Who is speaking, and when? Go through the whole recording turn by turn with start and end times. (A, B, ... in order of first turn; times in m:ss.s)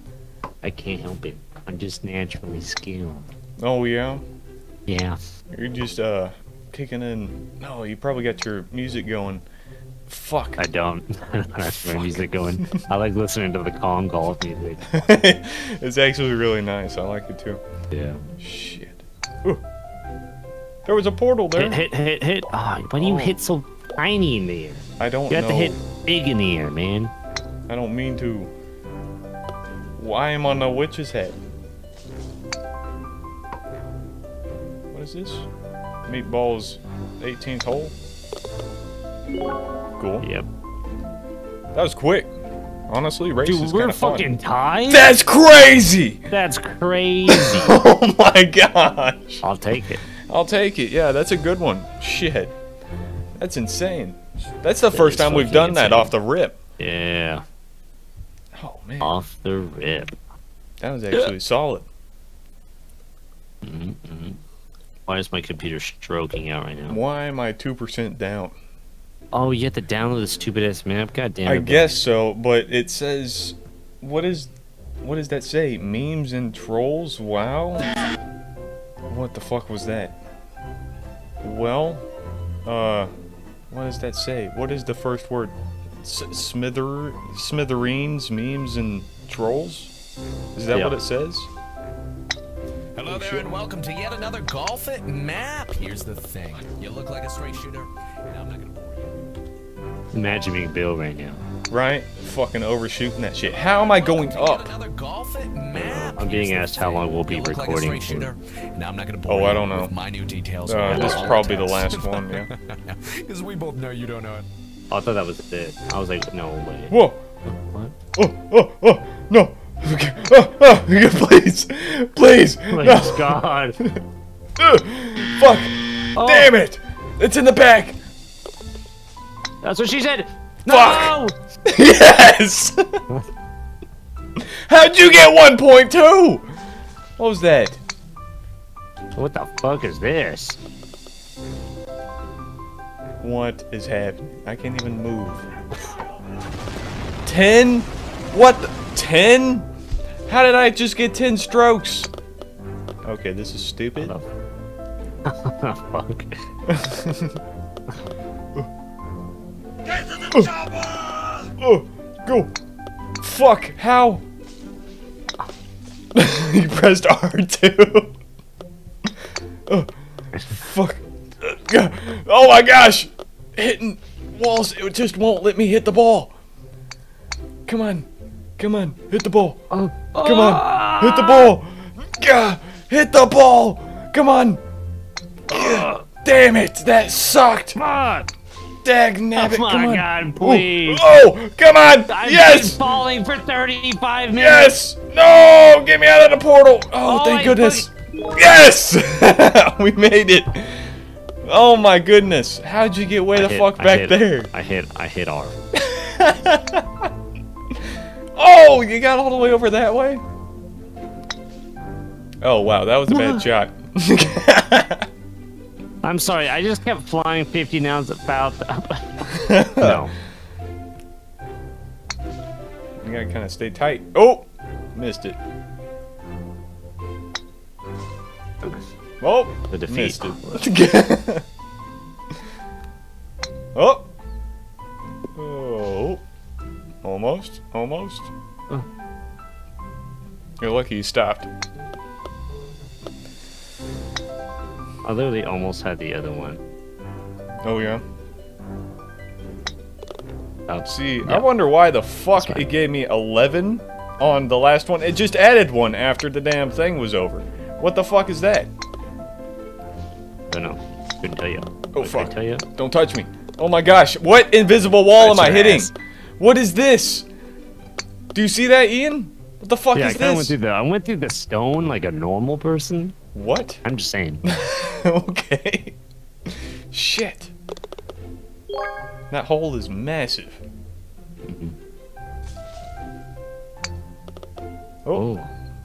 0:00.6-0:03.3 A
0:03.6-0:04.2 B
0:04.9-0:05.2 A
0:05.5-0:09.4 B
0:10.1-0:10.6 B
0:10.6-0:14.8 A
0:11.9-0:12.9 B
0:14.8-0:17.6 B
0:17.9-0:18.2 A
0:18.4-0:19.6 B
0:20.9-0:21.8 B
0:21.6-0:27.1 A
0:23.0-0:23.4 B
0:25.0-0:25.8 B
0:27.7-0:28.5 B
0:30.0-0:31.4 B
0:34.9-0:35.5 B
0:36.1-0:37.9 B
0:40.0-0:40.3 B
0:40.2-0:40.5 A
0:41.8-0:42.3 B
0:42.9-0:44.3 B
0:43.4-0:45.1 A
0:44.9-0:46.3 B
0:46.3-0:47.8 A
0:47.3-0:49.4 B
0:49.4-0:50.0 A
0:50.3-0:52.6 B
0:53.4-0:56.6 B
0:54.9-0:56.1 A
0:56.8-0:57.4 A
0:58.6-0:59.2 B
0:59.0-1:00.2 A
1:00.8-1:01.9 B
1:03.6-1:04.4 A
1:05.1-1:07.0 A
1:06.9-1:08.6 B
1:09.3-1:11.9 A
1:11.4-1:14.5 B
1:15.0-1:17.9 B
1:19.1-1:20.2 B
1:21.4-1:22.1 B
1:22.6-1:23.1 B
1:23.7-1:29.9 B
1:30.6-1:31.5 B
1:33.0-1:39.1 C
1:33.1-1:33.6 B
1:40.1-1:41.4 A
1:41.7-1:44.7 B
1:43.5-1:54.4 C
1:45.7-1:48.3 A
1:49.3-1:50.0 B
1:50.7-1:52.5 B
1:50.9-1:51.4 A
1:54.9-1:58.0 A
1:56.9-1:57.2 B
1:58.2-2:04.0 B
2:02.7-2:03.8 A
2:04.6-2:08.0 B
2:06.2-2:06.5 A
2:09.6-2:11.4 A
2:10.7-2:11.2 B
2:11.7-2:13.0 B
2:14.4-2:16.5 B
2:17.2-2:17.8 B
2:19.2-2:20.6 A
2:23.2-2:25.5 B
2:27.3-2:29.7 B
2:30.3-2:32.1 B
2:33.0-2:34.2 B
2:34.0-2:34.3 A
2:35.2-2:36.4 A
2:36.7-2:37.4 B
2:40.2-2:42.5 B
2:43.2-2:44.2 B
2:46.1-2:48.2 B
2:49.7-2:50.0 B
2:50.3-2:50.6 A
2:50.5-2:56.3 B
2:57.7-2:59.6 B
2:59.7-3:01.6 A
3:00.2-3:04.6 B
3:05.5-3:07.8 B
3:05.5-3:06.0 A
3:07.8-3:08.3 A
3:08.8-3:12.8 B
3:09.4-3:11.1 A
3:12.1-3:14.8 A
3:14.3-3:20.9 B
3:17.0-3:17.9 A
3:21.4-3:24.5 B
3:23.4-3:25.6 A
3:25.8-3:27.1 B
3:28.4-3:30.2 B
3:32.4-3:35.1 B
3:33.1-3:33.4 A
3:36.0-3:40.1 A
3:39.3-3:40.0 B
3:43.0-3:45.4 B
3:49.2-3:51.4 B
3:49.7-3:50.6 A
3:53.8-3:54.1 B
3:55.4-3:56.2 B
3:57.0-3:58.3 B
4:00.6-4:01.5 B
4:05.0-4:06.6 A
4:07.6-4:08.0 B
4:10.7-4:11.5 A
4:10.8-4:18.7 B
4:12.4-4:12.7 A
4:20.5-4:22.6 A
4:21.9-4:27.3 B
4:25.2-4:25.9 A
4:28.3-4:30.6 B
4:29.9-4:33.2 A
4:33.3-4:33.8 B
4:33.8-4:34.4 A
4:34.5-4:36.0 B
4:36.5-4:37.5 B
4:39.3-4:40.6 B
4:41.5-4:41.8 A
4:45.1-4:45.5 A